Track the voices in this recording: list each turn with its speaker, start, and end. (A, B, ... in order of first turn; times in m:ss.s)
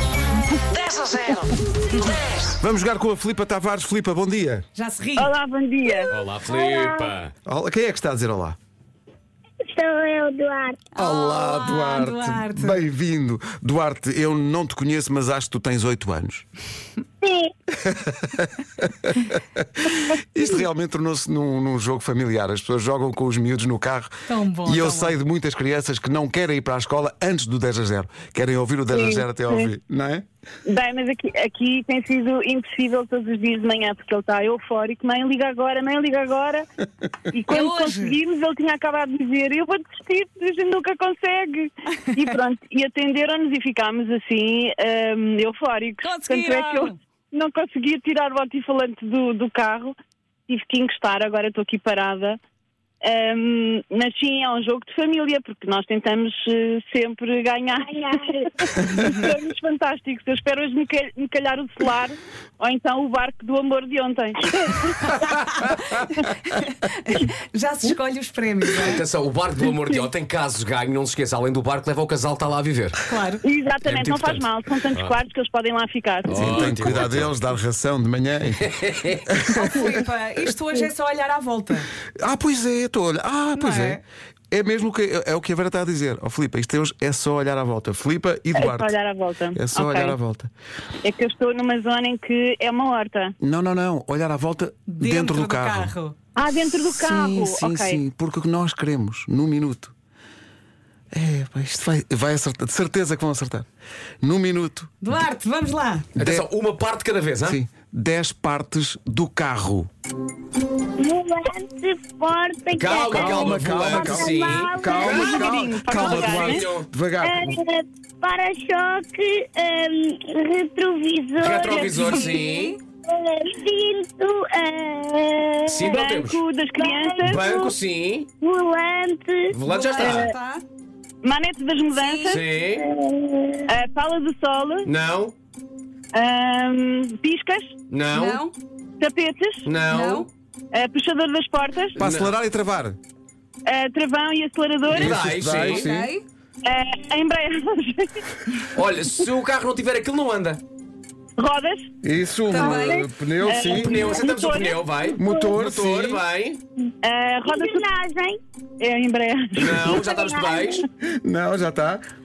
0:01.1-0:01.4 A
0:02.6-0:04.6 B
0:04.8-0:05.3 C
0:05.2-0:06.1 A
0:06.1-0:07.3 D
0:06.5-0:07.1 E
0:07.4-0:08.6 B
0:09.6-0:10.8 E
0:10.9-0:12.8 C
0:11.0-0:16.4 B
0:17.2-0:17.5 E
0:17.7-0:30.2 B
0:24.3-0:25.2 C
0:28.9-0:29.7 A
0:30.6-0:36.6 A
0:37.3-0:49.9 A
0:37.5-0:38.2 C
0:46.0-0:47.0 C
0:50.5-0:52.4 A
0:53.0-1:05.2 A
0:58.0-0:58.4 E
1:05.6-1:09.0 C
1:08.8-1:13.0 D
1:13.1-1:13.4 C
1:13.4-1:16.7 A
1:13.8-1:15.2 D
1:16.3-1:17.5 D
1:16.3-1:18.7 B
1:18.5-1:19.3 D
1:19.3-1:19.6 B
1:19.5-1:21.9 C
1:22.2-1:24.0 B
1:23.5-1:24.0 C
1:24.5-1:29.0 B
1:28.5-1:30.2 A
1:29.5-1:30.5 B
1:31.0-1:33.3 A
1:33.4-1:35.9 B
1:34.9-1:36.1 C
1:36.4-1:38.0 A
1:36.9-1:39.9 B
1:41.1-1:43.7 B
1:44.2-1:44.9 B
1:45.0-1:46.0 C
1:46.1-1:46.5 B
1:46.2-1:47.6 D
1:47.4-1:49.9 B
1:51.0-1:55.4 E
1:52.7-1:56.9 D
1:53.1-1:57.6 B
1:55.0-1:56.6 A
1:57.2-2:02.4 E
2:01.4-2:02.8 D
2:01.7-2:02.8 C
2:03.0-2:05.9 E
2:05.7-2:06.4 D
2:05.9-2:07.5 A
2:06.8-2:07.7 E
2:07.2-2:08.3 D
2:08.4-2:09.6 E
2:09.5-2:10.3 D
2:09.6-2:10.6 C
2:10.0-2:10.3 A
2:11.2-2:12.4 A
2:11.9-2:12.4 C
2:12.3-2:12.9 D
2:12.7-2:13.7 E
2:13.7-2:14.9 A
2:14.8-2:15.3 D
2:16.1-2:17.7 A
2:17.9-2:18.4 D
2:18.1-2:18.5 C
2:19.0-2:19.7 A
2:19.6-2:20.3 D
2:19.9-2:20.3 C
2:20.7-2:22.0 A
2:22.0-2:23.0 B
2:22.0-2:22.3 D
2:23.6-2:25.2 A
2:24.9-2:25.9 D
2:24.9-2:26.1 B
2:25.7-2:26.2 C
2:26.6-2:28.1 A
2:28.7-2:30.6 D
2:31.4-2:31.9 A
2:32.0-2:34.2 B
2:32.5-2:33.0 C
2:32.6-2:32.9 E
2:33.4-2:34.8 A
2:33.7-2:36.6 D
2:35.2-2:35.6 E
2:35.2-2:36.2 B
2:37.0-2:37.8 A
2:37.4-2:38.4 E
2:38.8-2:40.0 A
2:39.6-2:40.8 D
2:39.8-2:40.8 E
2:41.0-2:42.0 B